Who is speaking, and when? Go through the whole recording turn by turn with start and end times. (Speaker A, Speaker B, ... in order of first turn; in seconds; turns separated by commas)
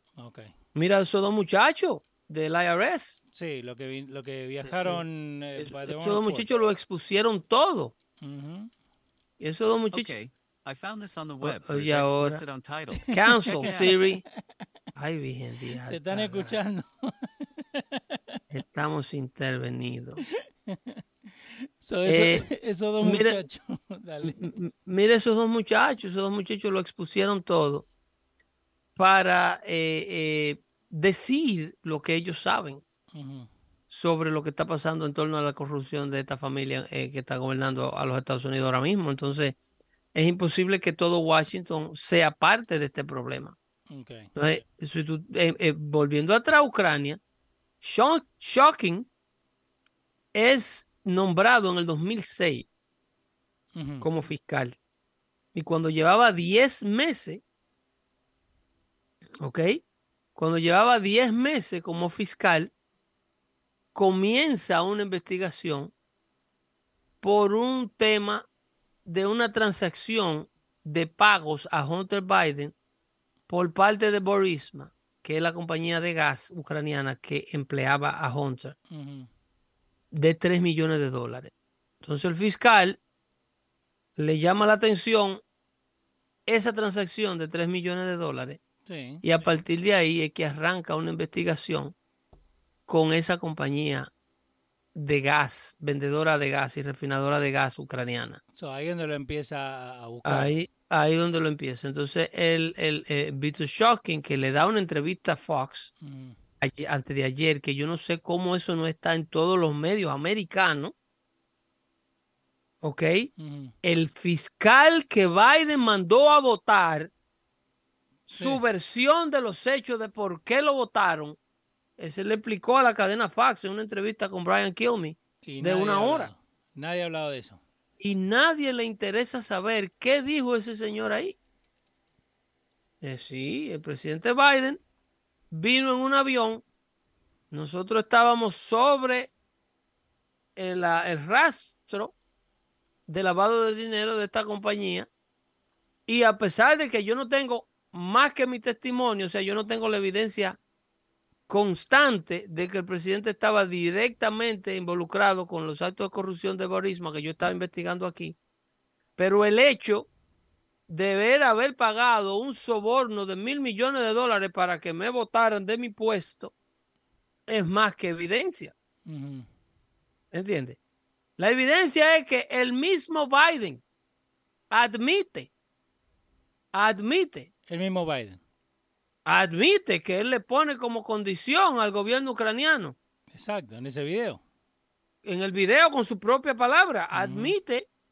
Speaker A: 0.2-0.5, Speaker B: 0.7-3.2, Speaker A: 3.3-6.5, Speaker B: 4.7-5.0, Speaker B: 5.6-7.9, Speaker A: 8.2-8.7, Speaker B: 9.4-10.1, Speaker C: 9.9-14.0, Speaker B: 11.4-12.4, Speaker A: 13.1-14.1, Speaker B: 13.1-14.2, Speaker B: 14.9-16.6, Speaker A: 15.9-18.4, Speaker B: 18.5-20.2, Speaker A: 20.7-24.4, Speaker B: 22.1-22.4, Speaker B: 23.0-23.4, Speaker B: 24.2-27.9, Speaker B: 29.0-32.8, Speaker A: 33.1-33.5, Speaker B: 33.9-39.5, Speaker B: 40.1-43.5, Speaker A: 43.9-44.3, Speaker B: 44.3-47.2, Speaker B: 47.8-49.1, Speaker B: 50.3-52.7, Speaker A: 53.7-54.1, Speaker B: 54.0-54.7, Speaker B: 55.5-57.4, Speaker B: 59.4-59.8, Speaker B: 60.3-62.7, Speaker B: 63.9-65.9, Speaker B: 67.2-68.4, Speaker B: 69.0-72.7, Speaker B: 73.5-78.8, Speaker A: 78.9-79.3, Speaker B: 80.1-83.0, Speaker B: 84.2-85.4, Speaker B: 86.5-88.6, Speaker A: 88.8-89.2, Speaker B: 89.2-91.9, Speaker B: 92.9-94.1, Speaker B: 94.9-98.4, Speaker A: 98.5-100.5, Speaker B: 100.2-105.9, Speaker A: 106.0-106.4, Speaker B: 106.6-110.9, Speaker B: 112.8-113.3, Speaker A: 113.4-113.7, Speaker B: 113.8-117.1, Speaker B: 118.3-121.4, Speaker A: 118.3-118.6, Speaker B: 122.0-126.3, Speaker A: 125.5-127.6, Speaker B: 128.0-131.3, Speaker B: 133.0-134.8, Speaker B: 135.5-136.6, Speaker B: 137.5-139.3, Speaker B: 140.6-142.1, Speaker B: 143.1-145.1, Speaker B: 146.1-150.6, Speaker B: 151.5-158.3, Speaker B: 159.2-160.1, Speaker B: 160.9-166.5, Speaker B: 167.5-168.7, Speaker A: 169.1-169.5, Speaker B: 170.3-170.8, Speaker B: 171.4-173.8, Speaker B: 174.7-175.5, Speaker B: 176.7-177.5, Speaker A: 177.7-178.4, Speaker B: 179.2-182.9, Speaker A: 183.3-184.4, Speaker B: 185.2-187.9, Speaker A: 187.1-187.5